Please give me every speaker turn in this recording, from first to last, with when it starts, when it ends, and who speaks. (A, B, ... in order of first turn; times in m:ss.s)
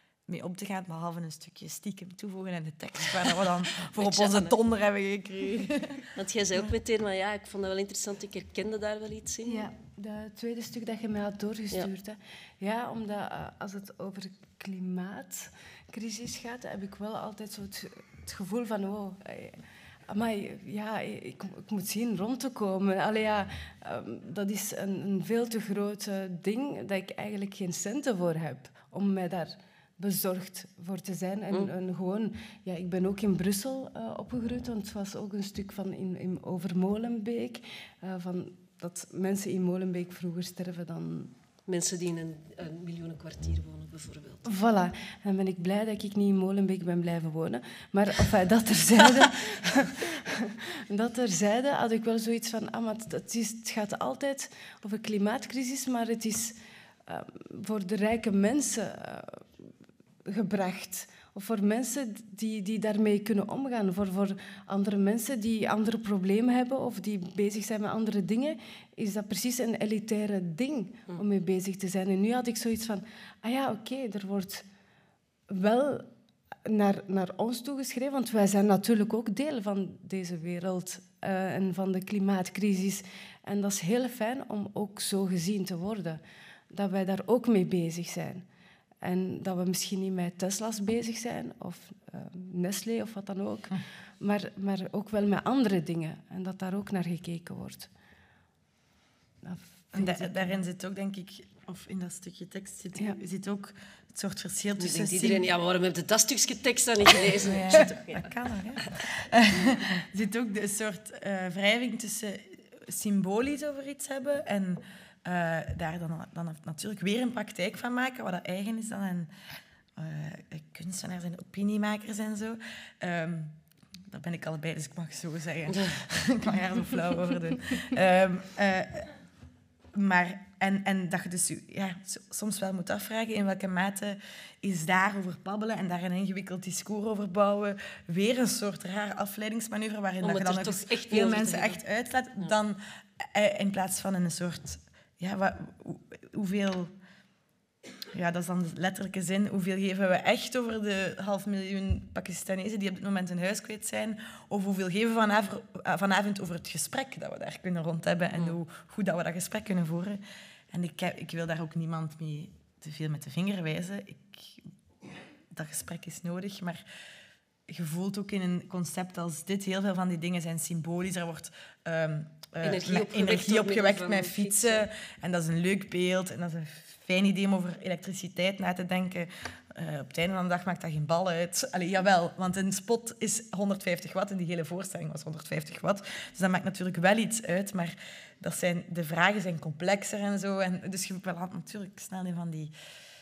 0:00.3-0:06.0 A
0:03.9-0:04.6 B
0:06.1-0:09.7 B
0:09.4-0:41.3 C
0:41.7-0:44.5 B
0:44.4-0:56.6 C
0:57.1-0:59.4 C
1:00.2-1:14.6 C
1:15.5-1:16.1 C
1:16.6-1:28.4 C
1:29.0-1:37.9 C
1:39.4-1:40.4 C
1:39.9-1:45.5 A
1:44.8-1:48.3 B
1:47.3-1:59.3 A
2:00.0-2:09.1 A
2:09.9-2:26.9 A
2:20.2-2:21.8 B
2:28.1-2:44.7 A
2:45.5-2:46.8 A
2:47.7-3:12.7 A
2:52.6-2:54.8 B